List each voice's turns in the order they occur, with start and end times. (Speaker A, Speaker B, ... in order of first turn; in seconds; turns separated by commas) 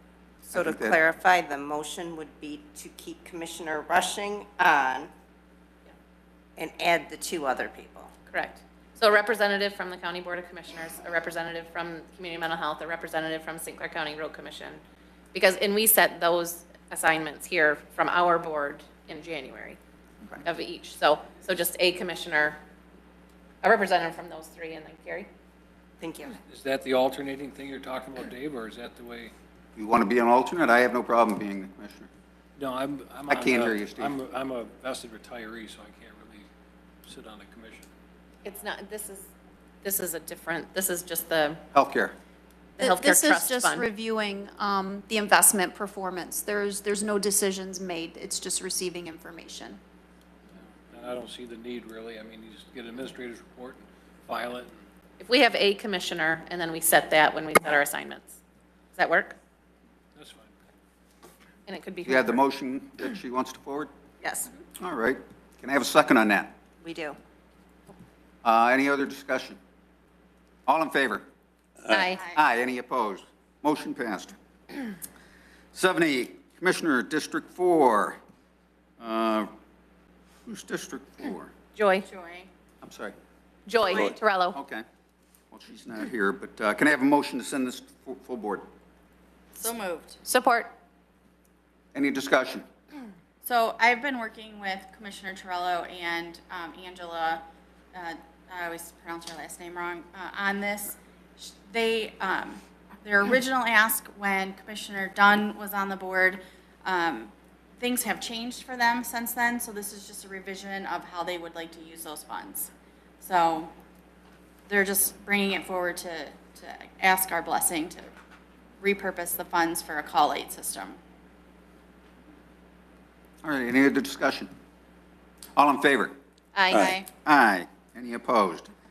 Speaker A: 0.4-5.1, Speaker B: 0.5-1.0, Speaker A: 6.6-8.1, Speaker C: 8.3-14.8, Speaker C: 15.3-19.8, Speaker C: 20.4-22.6, Speaker C: 23.6-25.3, Speaker A: 26.0-26.4, Speaker D: 26.5-29.3, Speaker B: 29.8-32.1, Speaker D: 32.6-36.5, Speaker B: 33.3-34.1, Speaker D: 37.0-37.9, Speaker C: 38.4-39.3, Speaker C: 39.8-41.6, Speaker B: 41.7-42.1, Speaker C: 42.8-43.9, Speaker E: 42.8-49.8, Speaker D: 50.5-54.8, Speaker C: 55.2-58.4, Speaker C: 58.9-59.4, Speaker D: 60.1-60.5, Speaker C: 61.7-62.4, Speaker B: 62.0-63.9, Speaker A: 64.2-64.5, Speaker B: 64.8-66.5, Speaker A: 66.8-67.2, Speaker B: 68.4-69.6, Speaker B: 70.7-71.2, Speaker B: 71.9-74.3, Speaker C: 71.9-72.2, Speaker F: 72.1-72.4, Speaker B: 75.7-78.2, Speaker B: 79.0-79.5, Speaker B: 80.5-81.5, Speaker C: 81.7-82.0, Speaker F: 82.0-82.5, Speaker B: 82.8-83.1, Speaker C: 83.7-84.6, Speaker B: 84.0-84.8, Speaker B: 85.5-88.7, Speaker F: 89.5-90.2, Speaker C: 90.2-90.7, Speaker B: 91.9-92.7, Speaker F: 93.4-97.4, Speaker F: 97.9-112.7, Speaker F: 113.2-113.7, Speaker F: 114.7-118.0, Speaker F: 118.8-121.0, Speaker B: 123.4-124.5, Speaker B: 125.5-126.1, Speaker C: 126.5-126.9, Speaker F: 126.7-127.1, Speaker B: 126.8-128.7